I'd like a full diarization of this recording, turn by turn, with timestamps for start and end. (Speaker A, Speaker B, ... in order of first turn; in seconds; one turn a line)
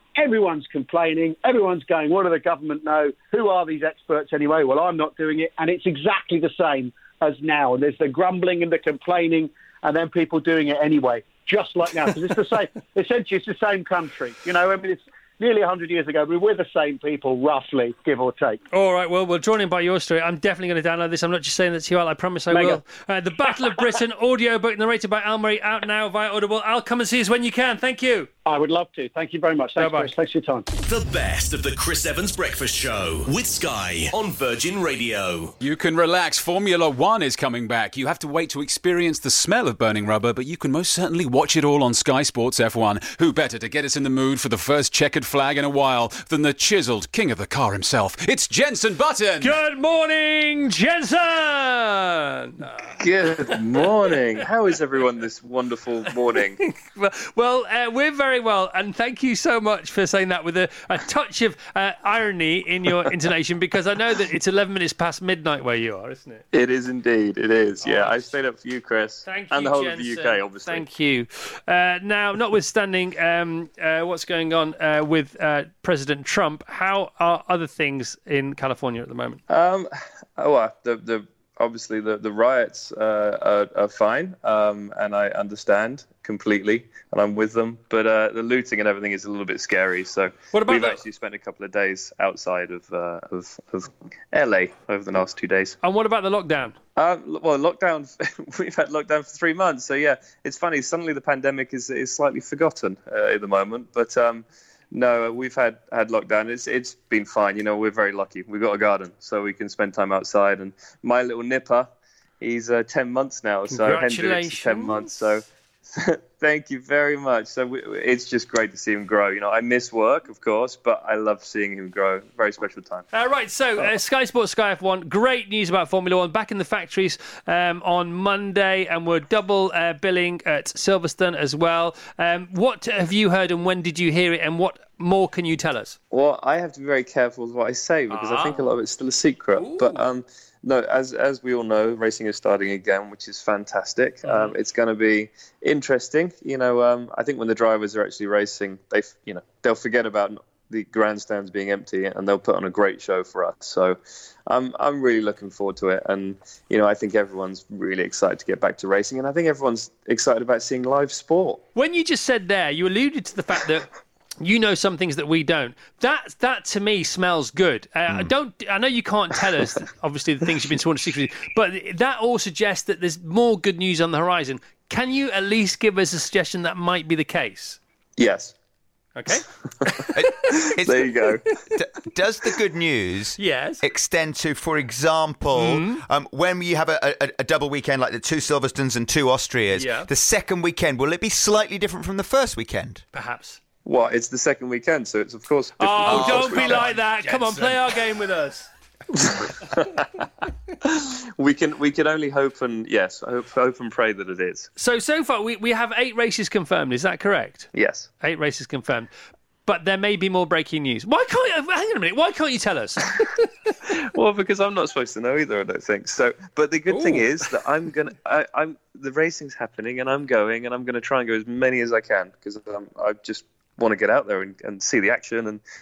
Speaker A: 0.2-18.6
Speaker B: 18.7-28.3
Speaker A: 22.5-22.8
Speaker A: 28.5-30.7
Speaker B: 29.8-30.1
Speaker C: 30.8-35.5
Speaker D: 35.6-49.6
Speaker B: 49.4-53.0
Speaker E: 53.0-56.6
Speaker B: 56.6-66.5
Speaker E: 66.5-70.9
Speaker B: 67.8-68.3
Speaker B: 69.2-79.4
Speaker E: 79.5-95.8
Speaker B: 90.5-91.0
Speaker B: 95.8-96.8
Speaker E: 97.0-123.1
Speaker B: 113.7-115.2
Speaker B: 123.1-136.0
Speaker E: 136.1-161.6
Speaker B: 138.1-138.7
Speaker B: 139.6-140.0
Speaker B: 144.2-144.5
Speaker B: 161.8-163.9
Speaker B: 164.4-177.8
Speaker E: 178.2-178.5
Speaker B: 179.2-180.3
Speaker F: 180.2-181.1
Speaker E: 180.5-181.5
Speaker F: 181.6-193.0
Speaker B: 183.4-183.8
Speaker B: 185.6-186.0
Speaker B: 189.7-190.1
Speaker B: 193.1-193.6
Speaker E: 193.8-197.8
Speaker B: 195.8-198.7
Speaker F: 196.1-196.8
Speaker E: 199.2-200.1
Speaker E: 200.8-204.7
Speaker B: 204.8-209.1
Speaker E: 207.7-208.1
Speaker B: 209.7-213.4
Speaker E: 214.0-225.6
Speaker B: 216.9-217.3